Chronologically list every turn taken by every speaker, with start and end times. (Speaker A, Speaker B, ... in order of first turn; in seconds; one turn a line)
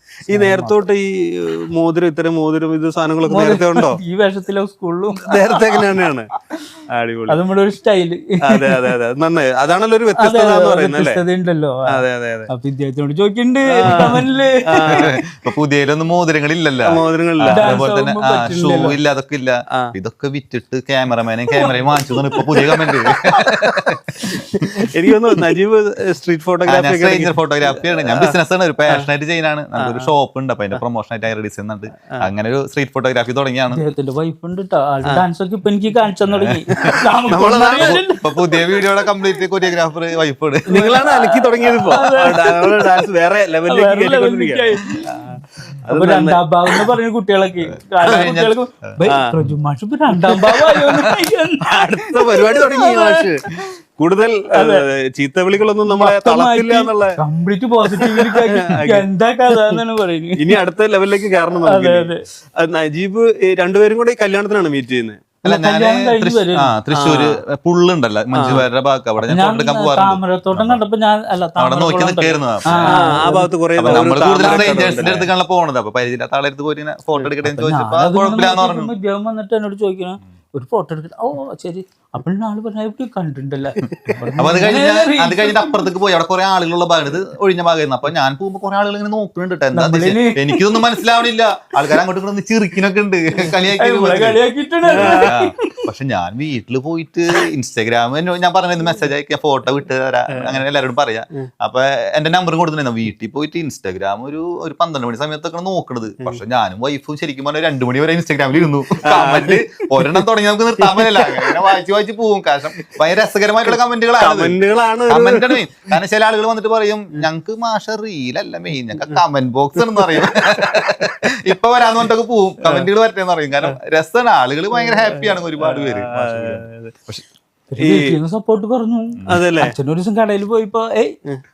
Speaker A: 0.3-0.8
Speaker B: 0.3-4.0
Speaker A: 3.3-5.9
Speaker B: 5.3-6.3
Speaker B: 6.9-7.4
Speaker A: 7.3-8.9
Speaker B: 8.4-11.2
Speaker A: 10.2-15.1
Speaker B: 11.9-12.5
Speaker B: 13.8-15.1
Speaker C: 14.9-24.8
Speaker B: 16.9-17.9
Speaker A: 17.5-19.0
Speaker A: 21.5-23.4
Speaker B: 24.9-28.4
Speaker C: 26.7-33.8
Speaker B: 29.8-30.1
Speaker A: 33.7-38.8
Speaker C: 36.3-36.7
Speaker B: 36.7-38.0
Speaker C: 37.8-41.1
Speaker A: 40.7-42.9
Speaker B: 40.7-46.9
Speaker A: 43.7-45.1
Speaker A: 45.9-53.7
Speaker C: 47.6-49.0
Speaker B: 49.1-49.3
Speaker B: 50.2-57.2
Speaker A: 54.5-54.8
Speaker A: 55.9-60.4
Speaker B: 58.0-59.0
Speaker B: 60.4-65.2
Speaker A: 61.6-62.2
Speaker A: 65.4-66.8
Speaker C: 65.4-70.8
Speaker B: 66.9-67.4
Speaker B: 68.3-68.7
Speaker A: 69.3-75.3
Speaker C: 71.6-73.2
Speaker B: 72.8-75.3
Speaker C: 73.8-78.9
Speaker A: 77.4-85.9
Speaker B: 83.9-84.2
Speaker C: 84.4-94.4
Speaker A: 89.7-91.1
Speaker A: 93.7-95.9
Speaker C: 94.9-127.2
Speaker B: 95.0-95.3
Speaker B: 100.3-100.6
Speaker B: 109.1-109.6
Speaker B: 110.8-111.4
Speaker B: 113.7-115.6
Speaker B: 119.9-121.1
Speaker B: 124.8-127.0
Speaker A: 127.7-131.2
Speaker B: 127.8-128.2
Speaker B: 129.3-129.7